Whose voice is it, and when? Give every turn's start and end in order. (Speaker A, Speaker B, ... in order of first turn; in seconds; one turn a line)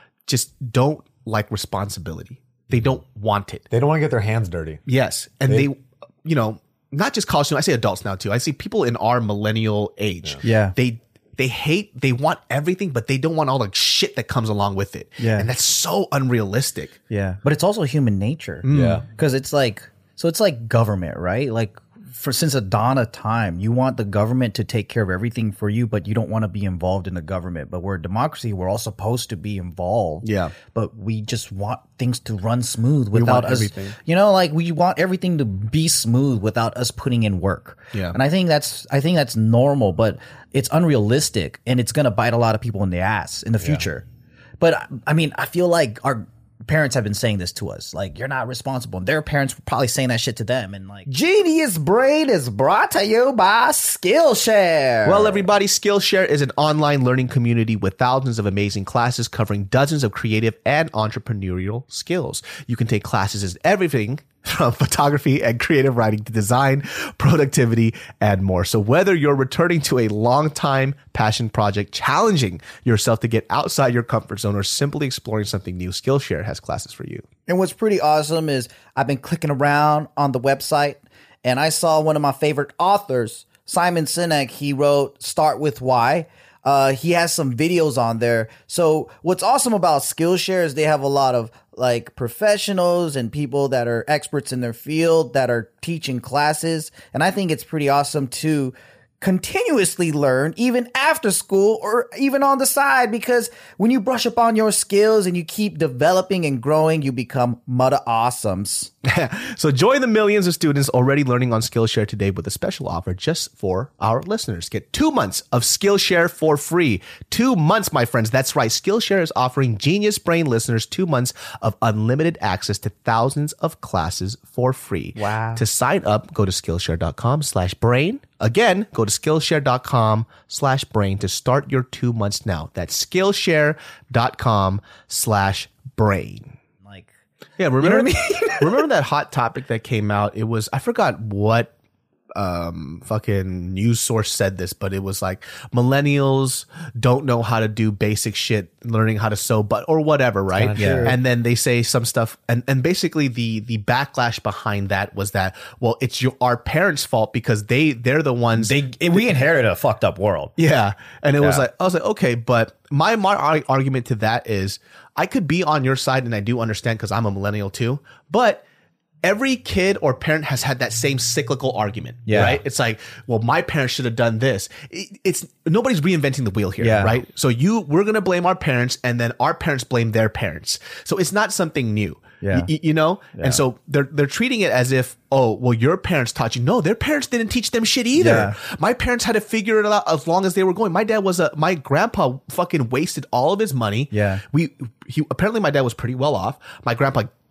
Speaker A: 0.3-3.6
Speaker B: 3.7-4.8
Speaker A: 4.9-16.9
Speaker C: 10.4-10.7
Speaker C: 15.2-15.5
Speaker C: 17.1-44.0
Speaker A: 18.6-19.0
Speaker B: 18.7-19.0
Speaker A: 30.2-30.5
Speaker A: 33.1-33.9
Speaker A: 37.9-38.2
Speaker C: 44.6-55.5
Speaker A: 55.0-77.2
Speaker C: 77.5-108.9
Speaker A: 109.0-136.5
Speaker C: 125.2-125.6
Speaker A: 137.6-141.7
Speaker C: 137.8-138.8
Speaker A: 142.3-158.8
Speaker B: 150.5-151.2
Speaker C: 150.8-151.2
Speaker C: 158.6-160.5
Speaker A: 160.6-168.6
Speaker A: 169.2-197.3
Speaker C: 172.3-172.6
Speaker C: 176.8-177.2
Speaker C: 182.4-182.7
Speaker C: 183.4-183.6
Speaker C: 188.2-188.6
Speaker C: 194.1-194.4